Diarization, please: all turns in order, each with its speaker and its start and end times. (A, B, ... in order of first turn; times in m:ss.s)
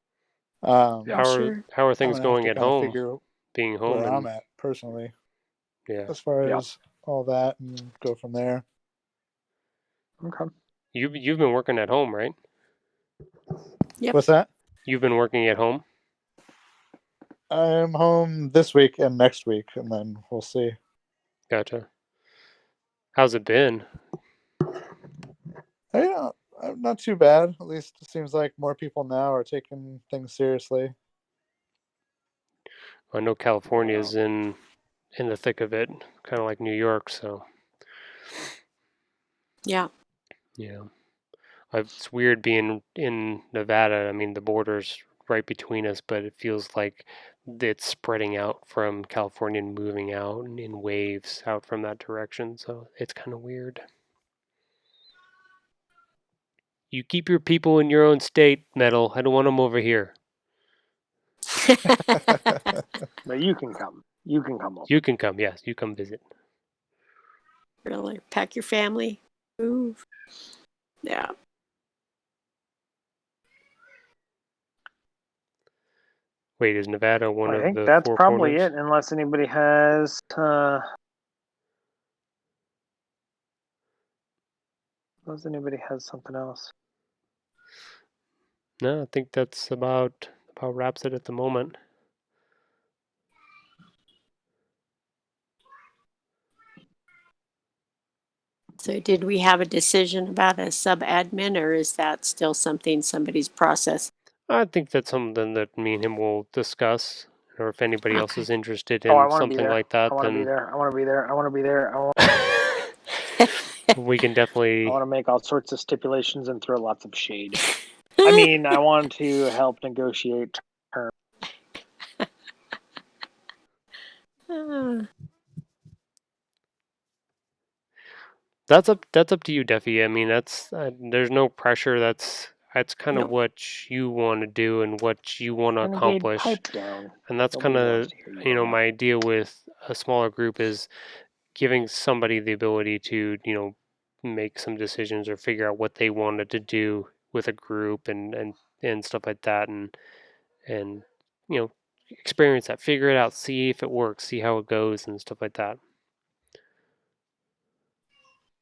0:00.6-0:01.2 A
0:01.1-0:01.6 B
0:01.1-0:03.0 C
0:02.0-0:03.2 A
0:03.5-0:04.3 C
0:03.9-0:05.1 A
0:05.9-0:06.1 C
0:06.1-0:08.6 A
0:10.2-0:10.5 D
0:10.9-0:12.4 C
0:14.1-0:14.5 A
0:14.9-0:15.8 C
0:17.5-0:20.8 A
0:21.5-0:21.9 C
0:23.1-0:23.9 C
0:25.9-0:30.9 A
0:33.1-0:34.6 C
0:33.7-0:34.1 D
0:35.2-0:37.4 C
0:40.6-0:40.9 C
0:41.7-0:53.8 C
0:56.9-1:00.1 C
1:01.6-1:02.7 B
1:03.2-1:04.9 D
1:04.9-1:06.2 C
1:07.8-1:10.0 B
1:11.0-1:11.3 B
1:16.6-1:18.7 C
1:17.4-1:20.8 D
1:25.3-1:26.7 D
1:28.8-1:31.8 C
1:38.8-1:44.1 B
1:44.5-1:50.5 C
1:49.1-1:52.3 D
1:53.9-1:55.0 C
1:54.8-1:57.6 D
1:58.2-2:01.1 D
2:04.5-2:05.1 B
2:08.7-2:16.6 C
2:15.8-2:18.8 D
2:17.3-2:20.9 C
2:21.6-2:30.0 C
2:30.7-2:35.8 C